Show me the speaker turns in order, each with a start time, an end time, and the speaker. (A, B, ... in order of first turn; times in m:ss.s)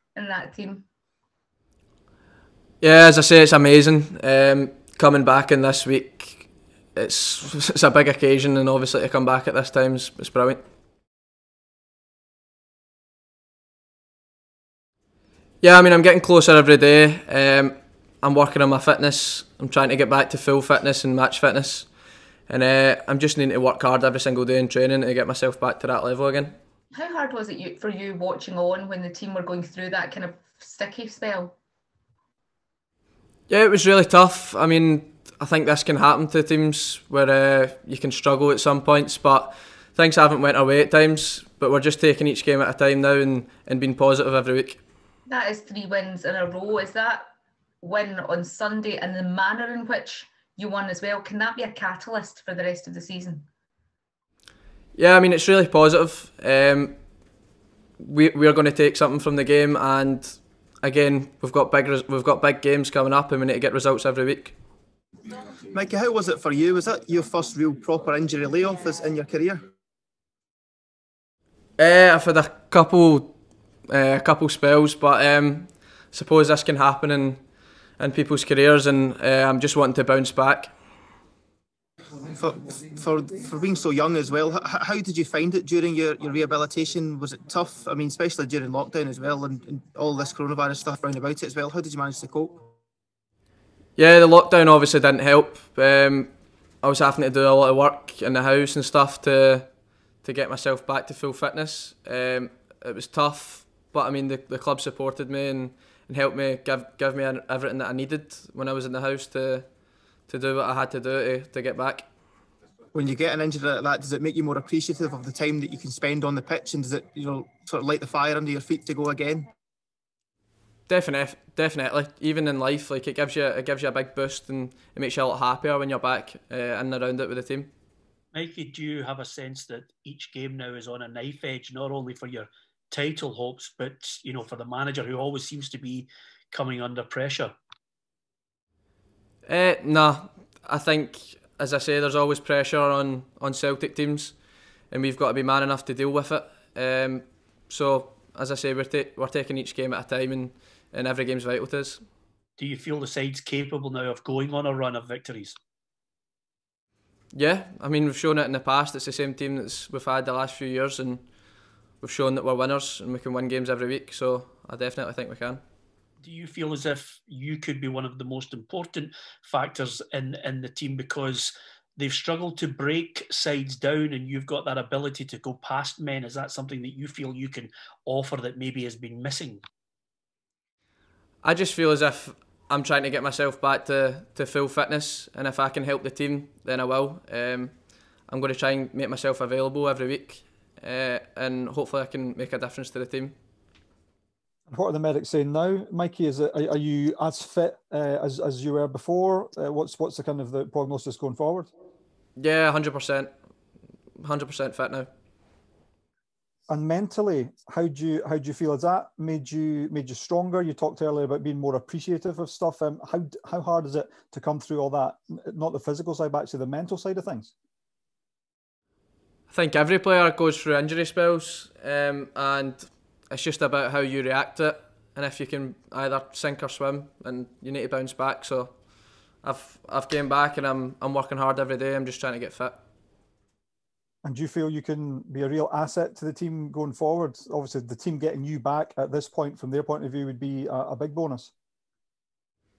0:00.2-0:00.9 A
0:02.8-0:10.6 B
0:15.6-0:21.9 B
0:22.5-0:26.6 B
0:26.9-0:31.6 A
0:33.5-0:44.8 B
0:45.3-0:47.3 A
0:47.8-0:53.5 A
0:55.0-0:57.0 B
0:58.0-1:04.6 B
1:05.7-1:09.6 C
1:11.8-1:13.3 B
1:13.9-1:17.4 B
1:18.0-1:20.7 B
1:22.3-1:32.6 C
1:34.0-1:52.0 B
1:52.9-1:59.5 C
2:00.9-2:07.7 B
2:08.3-2:17.5 D
2:19.5-2:32.0 B
2:32.6-2:35.6 D
2:37.3-2:45.6 B
2:46.2-2:59.6 D
3:01.4-3:13.4 B
3:14.7-3:21.7 E
3:22.4-3:23.3 B
3:24.2-3:25.1 B
3:26.7-3:37.5 E
3:39.5-3:52.8 B
3:54.2-4:01.5 E